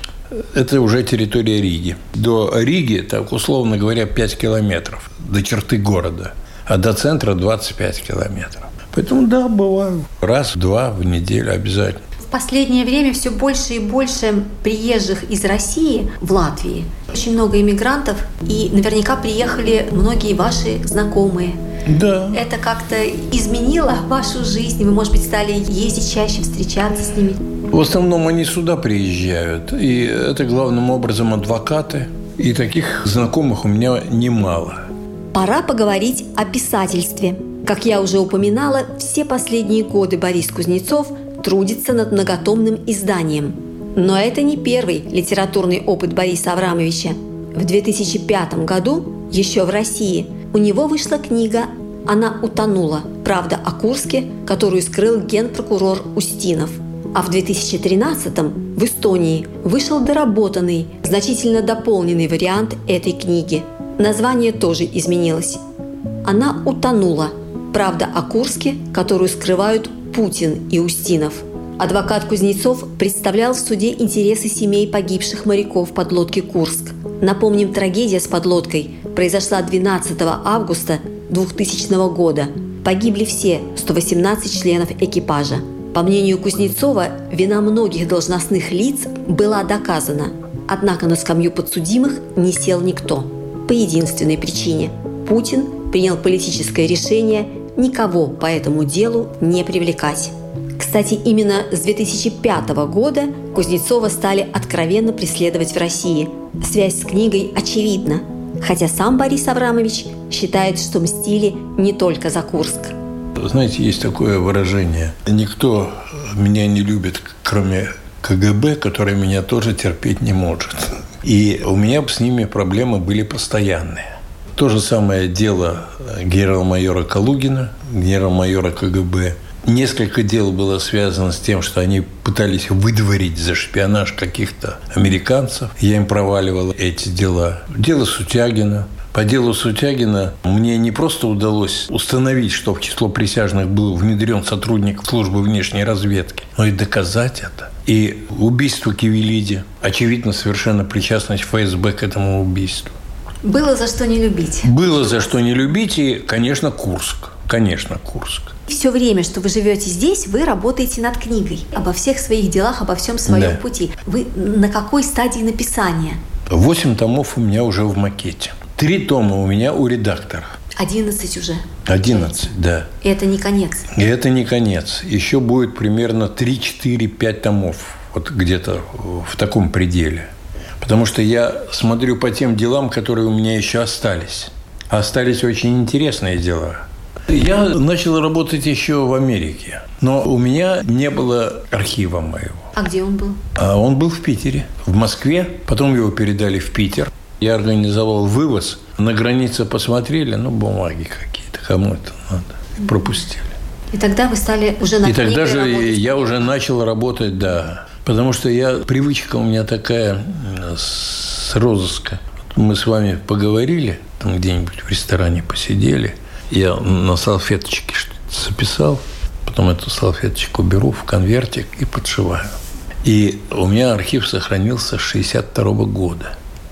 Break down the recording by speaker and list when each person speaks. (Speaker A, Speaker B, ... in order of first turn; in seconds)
Speaker A: 0.3-12.0, 21.9-22.4, 27.7-34.9, 113.4-152.9, 154.6-158.5, 163.3-163.6, 166.5-170.5, 171.9-172.9, 173.9-180.3, 180.8-192.7, 193.6-203.5, 205.0-226.3
Speaker B: 12.2-21.6, 22.3-27.4, 35.3-65.6, 66.2-113.0, 153.4-154.8, 158.7-166.2, 170.8-172.5, 173.0-173.9, 192.7-193.4, 203.9-206.5